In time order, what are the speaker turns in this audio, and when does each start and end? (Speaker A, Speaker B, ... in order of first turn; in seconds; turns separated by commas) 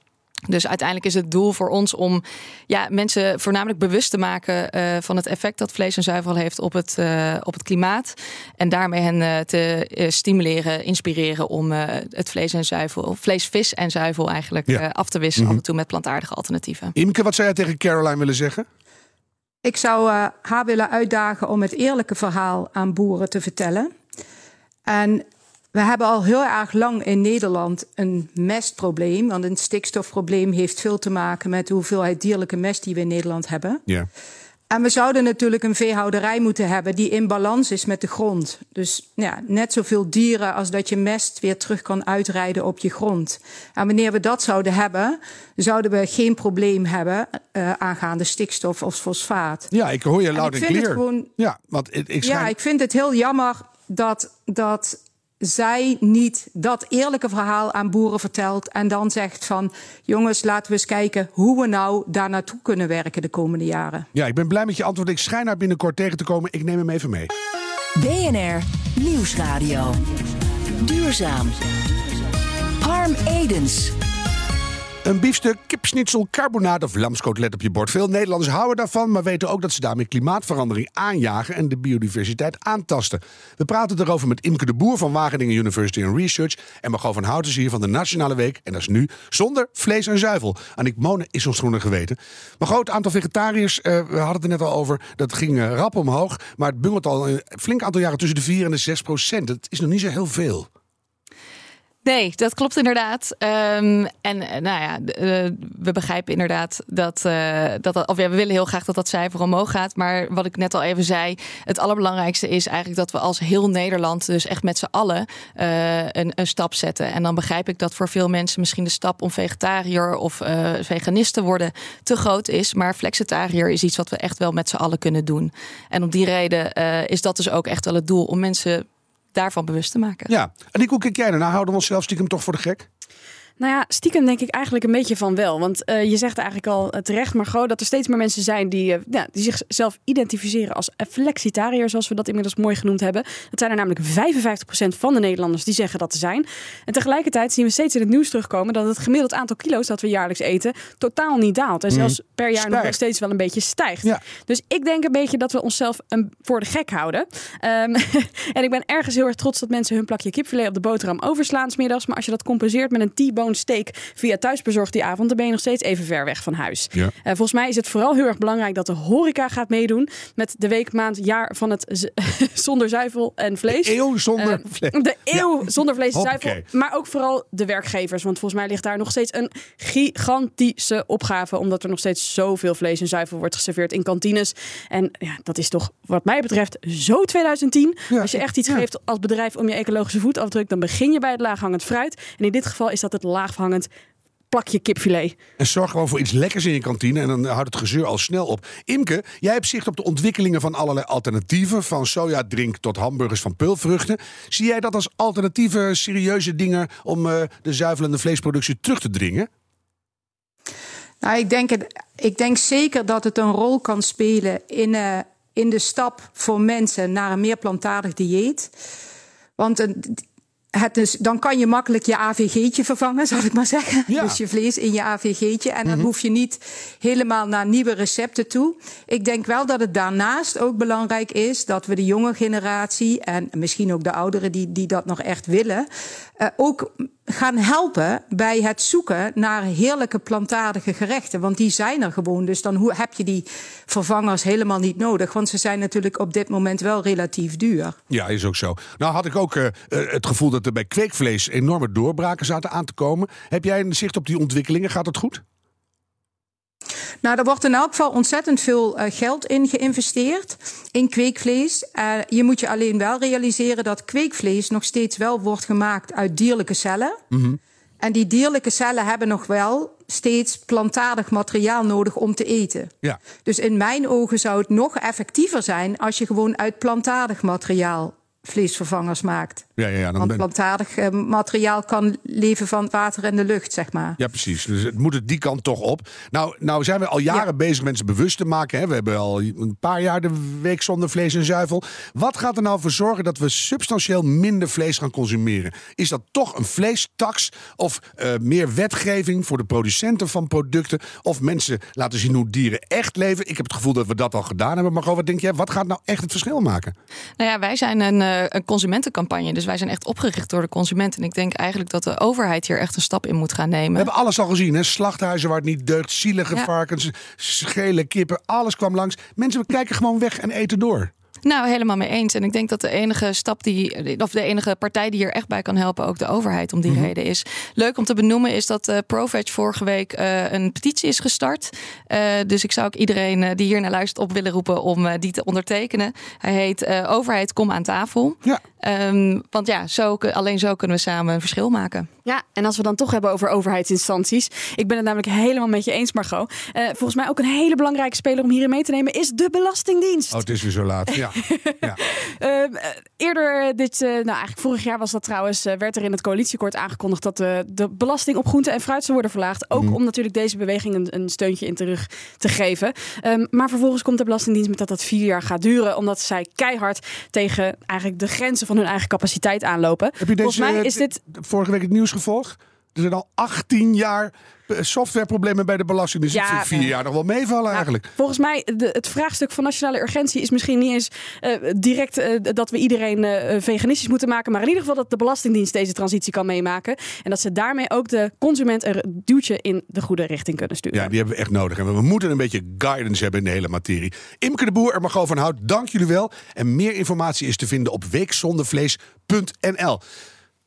Speaker A: 0.5-16.9, Speaker B: 16.9-18.6, Speaker C: 19.6-23.9, Speaker C: 24.9-33.8, Speaker C: 34.7-49.7, Speaker B: 49.7-52.5, Speaker C: 50.3-51.3, Speaker C: 52.2-64.1, Speaker B: 64.1-67.3, Speaker D: 68.0-70.1, Speaker D: 70.7-71.7, Speaker D: 72.8-73.9, Speaker B: 75.0-100.7, Speaker A: 102.0-130.3, Speaker B: 130.3-132.8, Speaker E: 133.6-193.9, Speaker B: 151.9-152.9, Speaker B: 173.7-175.5, Speaker B: 176.1-176.6, Speaker B: 188.1-188.8, Speaker E: 194.5-195.4, Speaker B: 195.6-209.5, Speaker C: 211.2-218.7, Speaker C: 219.6-220.2, Speaker C: 220.7-235.9, Speaker B: 224.1-224.4, Speaker C: 236.4-248.0, Speaker B: 248.1-255.4, Speaker C: 257.2-267.2, Speaker B: 267.3-267.6, Speaker C: 268.0-272.9, Speaker C: 273.4-279.7, Speaker B: 279.8-280.4, Speaker C: 280.2-284.2, Speaker B: 284.2-306.9, Speaker A: 307.4-314.1, Speaker B: 313.9-321.1, Speaker A: 321.4-342.1, Speaker E: 342.2-350.4, Speaker B: 350.3-352.0, Speaker E: 351.2-371.2, Speaker B: 370.2-378.1, Speaker E: 376.3-376.9, Speaker E: 377.7-391.1, Speaker B: 390.9-400.0